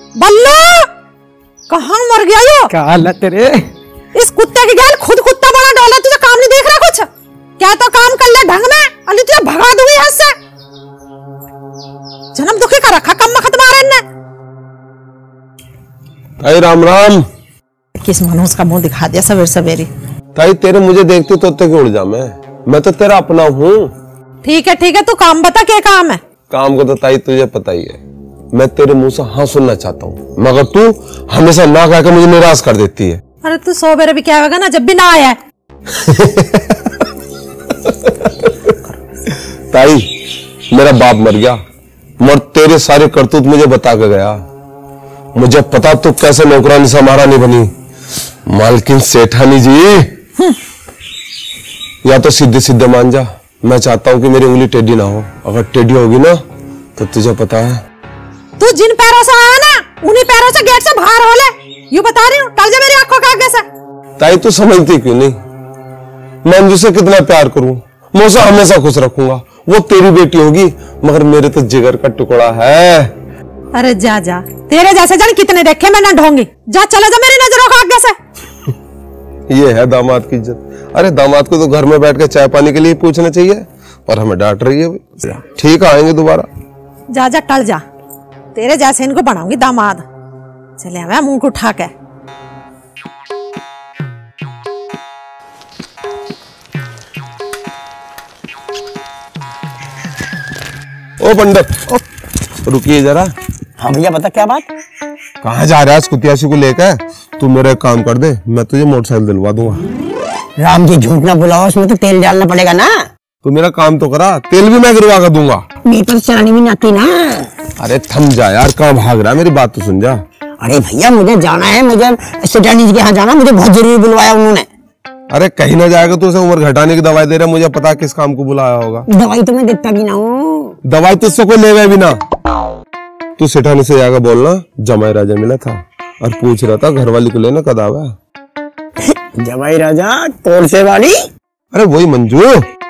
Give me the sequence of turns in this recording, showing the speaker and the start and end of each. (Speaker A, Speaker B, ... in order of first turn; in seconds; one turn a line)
Speaker A: 0.2-0.9
Speaker A: 1.7-2.7
Speaker A: 4.2-7.1
Speaker A: 7.6-10.4
Speaker A: 12.3-14.0
Speaker B: 16.4-17.3
Speaker A: 18.0-19.9
Speaker B: 20.4-23.9
Speaker A: 24.4-26.2
Speaker B: 26.5-28.0
Speaker B: 28.5-33.2
Speaker A: 33.4-35.4
Speaker B: 35.9-36.7
Speaker B: 37.9-38.5
Speaker B: 39.7-40.1
Speaker B: 40.7-41.6
Speaker B: 42.2-44.4
Speaker B: 45.4-47.7
Speaker B: 48.5-50.1
Speaker B: 52.0-56.4
Speaker B: 57.0-57.8
Speaker A: 58.6-63.6
Speaker B: 64.2-65.4
Speaker B: 66.4-73.1
Speaker A: 73.7-78.2
Speaker B: 79.5-86.5
Speaker A: 87.1-87.8
Speaker A: 88.5-90.0
Speaker A: 90.8-91.9
Speaker B: 101.2-102.0
Speaker B: 102.7-103.3
Speaker C: 103.8-104.7
Speaker B: 105.4-109.8
Speaker C: 110.6-113.0
Speaker B: 113.4-115.7
Speaker C: 115.8-117.5
Speaker B: 117.8-120.2
Speaker C: 120.6-124.7
Speaker B: 125.3-129.1
Speaker C: 129.1-130.8
Speaker B: 130.9-132.2
Speaker B: 133.4-138.2
Speaker C: 139.0-141.2
Speaker B: 141.7-142.7